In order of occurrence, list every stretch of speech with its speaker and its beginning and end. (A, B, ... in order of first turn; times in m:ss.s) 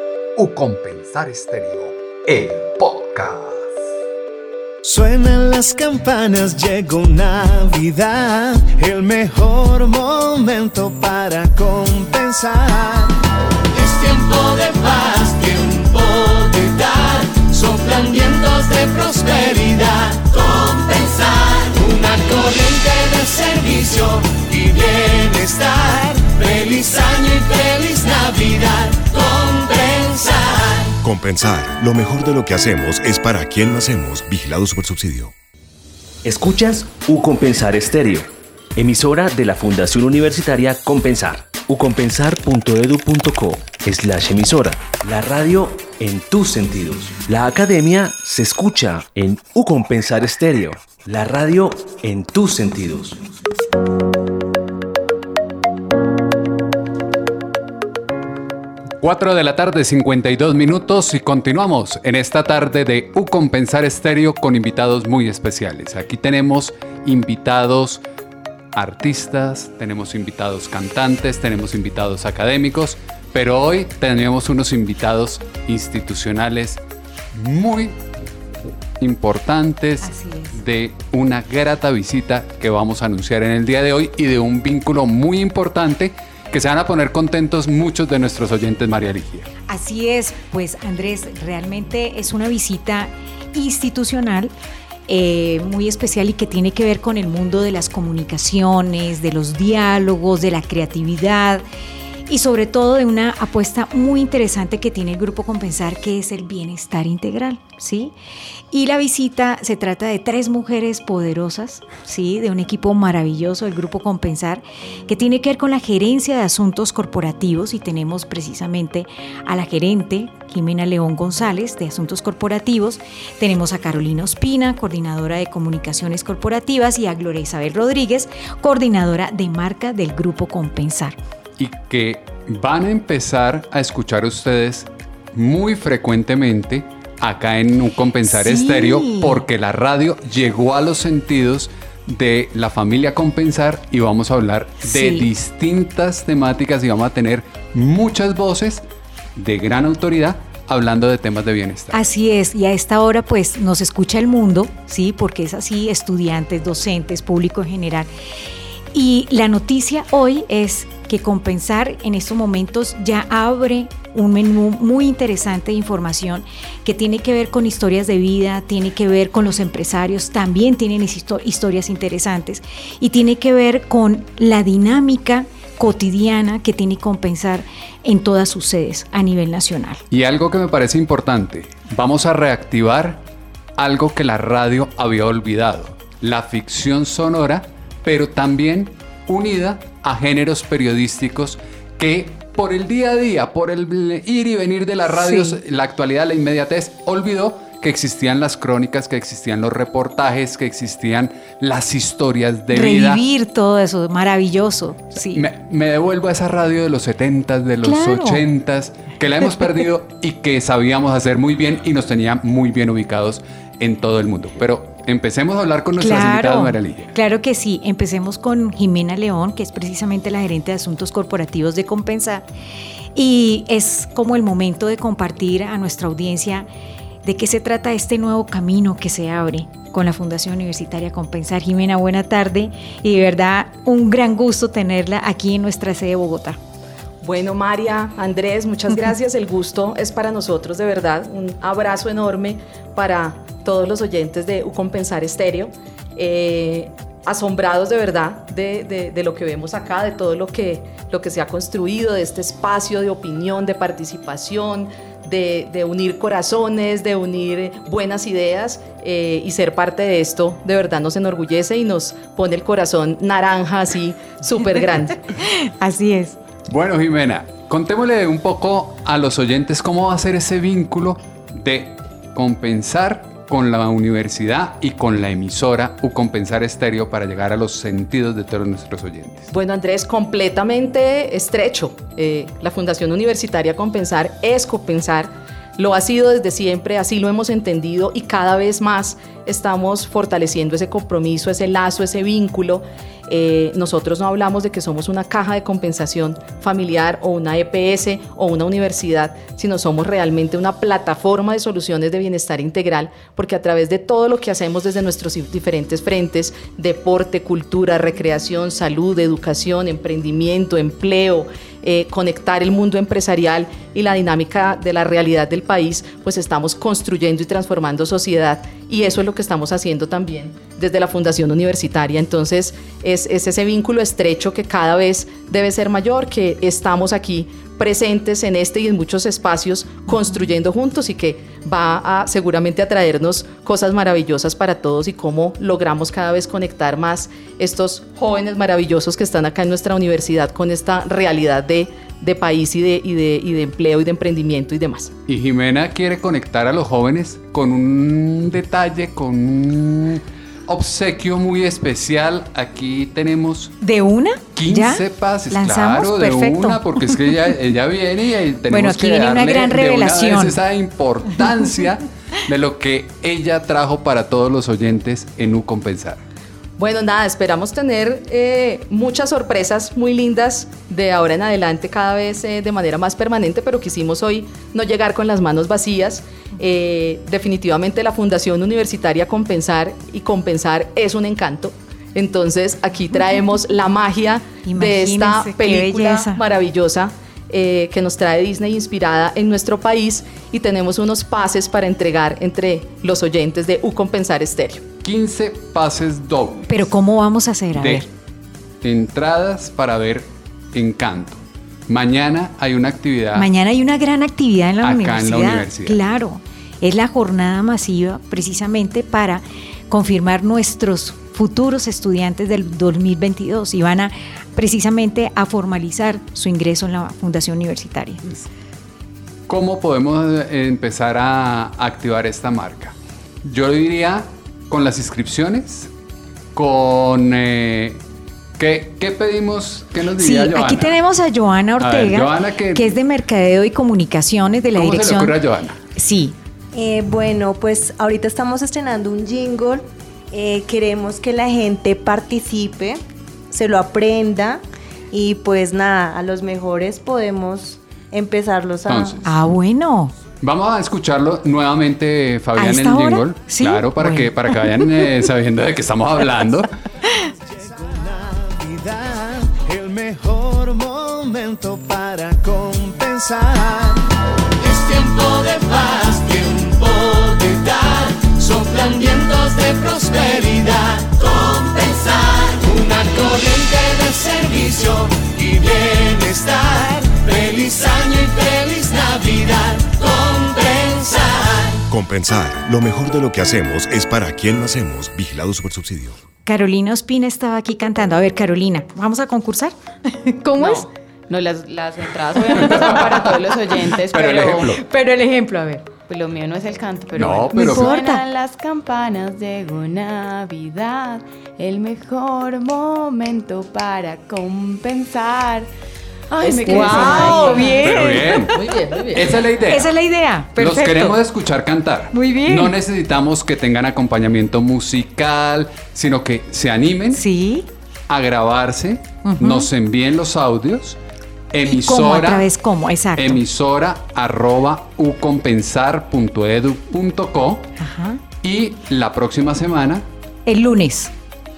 0:00.4-0:03.7 A
0:04.8-0:13.2 B
0:17.5-0:19.6 C
0:31.0-0:35.3 D
0:36.2-0:53.2 E
0:59.0-1:08.0 A
1:08.7-1:16.8 A
1:17.3-1:18.0 A
1:19.0-1:29.5 A
1:20.0-1:20.6 F
1:29.7-1:34.5 F
1:35.1-1:41.6 F
1:42.3-1:48.1 F
1:48.7-2:11.2 F
2:11.6-2:28.8 A
2:18.3-2:19.4 F
2:24.8-2:25.3 F
2:29.4-2:32.0 A
2:31.9-2:38.1 F
2:38.9-3:00.0 F
3:00.1-3:03.2 A
3:03.8-3:23.2 A
3:15.1-3:15.6 F
3:22.7-3:25.5 F
3:25.2-3:37.1 A
3:27.8-3:28.5 F
3:36.0-3:42.4 F
3:43.2-3:46.7 F
3:47.2-3:56.6 F
3:57.2-4:25.2 G
4:25.4-4:26.4 F
4:26.7-4:39.5 A
4:39.5-5:45.1 G
5:45.3-5:53.7 A
5:53.8-5:57.0 F
5:54.6-6:06.2 A
5:58.7-6:00.6 F
6:06.8-6:34.8 G
6:24.6-6:26.4 F
6:35.0-6:36.7 A
6:36.7-6:38.1 F
6:37.8-6:38.0 A
6:38.8-6:43.5 A
6:43.3-6:58.2 F
6:44.8-6:46.0 A
6:59.5-7:05.9 A
7:06.6-7:08.0 A
7:08.6-7:11.0 A
7:10.2-7:15.4 F
7:11.8-7:12.9 A
7:14.8-7:15.8 A
7:16.0-7:16.4 F
7:16.7-7:23.0 H
7:23.5-7:29.2 H
7:28.8-7:29.3 A
7:29.2-7:30.1 F
7:30.4-7:36.7 A
7:32.5-7:34.9 F
7:37.4-7:44.1 B
7:49.8-7:50.7 C
8:01.9-8:06.2 D
8:06.4-8:10.9 F
8:10.6-8:14.8 I
8:12.6-8:13.2 A
8:14.1-8:14.8 A
8:14.4-8:15.9 F
8:16.0-8:25.7 I
8:17.2-8:17.9 A
8:17.5-8:18.2 F
8:26.3-8:28.6 I
8:26.4-8:27.7 G
8:26.6-8:28.5 F
8:27.8-8:28.6 A
8:28.6-8:29.2 G
8:29.1-8:29.9 A
8:29.6-8:31.2 F
8:30.6-8:37.2 A
8:32.1-8:32.7 F
8:37.1-8:37.7 F
8:38.1-8:41.0 A
8:39.2-8:39.7 F
8:41.5-8:42.4 A
8:41.6-8:43.4 F
8:43.2-8:47.7 A
8:47.8-8:48.2 F
8:48.4-8:50.1 A
8:50.5-8:51.1 F